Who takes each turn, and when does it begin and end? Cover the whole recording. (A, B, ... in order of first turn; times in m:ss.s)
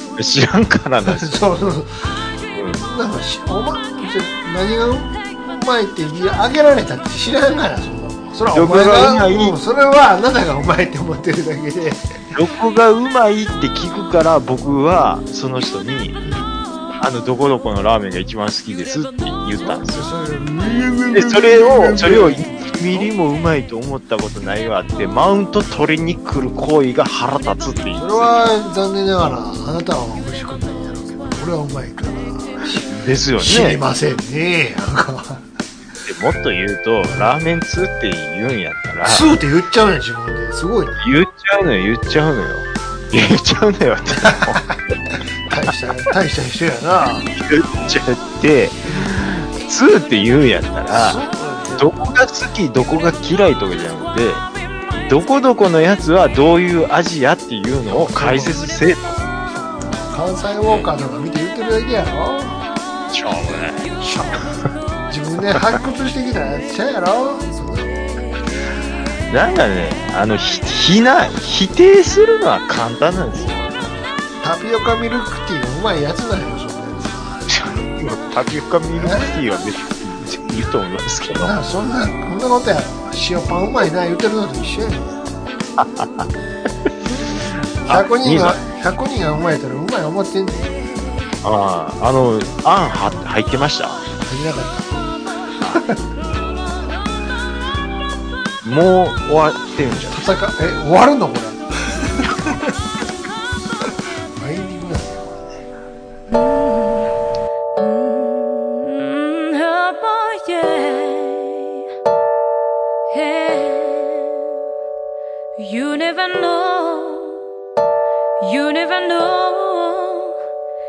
0:00.2-0:01.4 A
0:01.1-0:12.0 B
0:02.6-0:02.8 A
0:08.5-0:09.6 A
0:12.4-0:16.2 A
0:16.2-0:16.6 B
0:17.0-0:20.1 A
0:19.6-0:23.1 B
0:21.1-0:28.5 A
0:28.0-0:35.5 B
0:32.9-0:33.8 A
0:36.1-0:39.3 A
0:39.0-0:41.0 B
0:41.0-0:44.6 A
0:44.2-0:44.6 B
0:45.5-0:47.3 B
0:47.3-0:51.2 A
0:50.9-0:52.0 B
0:51.8-0:54.4 A
0:55.0-0:59.2 A
0:57.9-0:58.7 B
0:59.6-1:02.6 B
1:03.1-1:03.9 A
1:04.0-1:07.9 B
1:09.3-1:13.8 A
1:14.4-1:17.5 B
1:17.5-1:21.6 A
1:19.0-1:19.3 B
1:21.4-1:25.3 B
1:25.8-1:26.2 A
1:27.8-1:28.6 A
1:27.9-1:31.0 B
1:31.4-1:34.0 A
1:34.2-1:34.9 B
1:35.7-1:36.0 B
1:38.6-1:40.2 A
1:40.1-1:42.7 B
1:43.8-1:45.6 B
1:46.3-1:47.1 C
1:47.8-1:51.8 C
1:53.1-1:54.5 C
1:55.6-1:57.4 C
1:58.4-2:00.4 C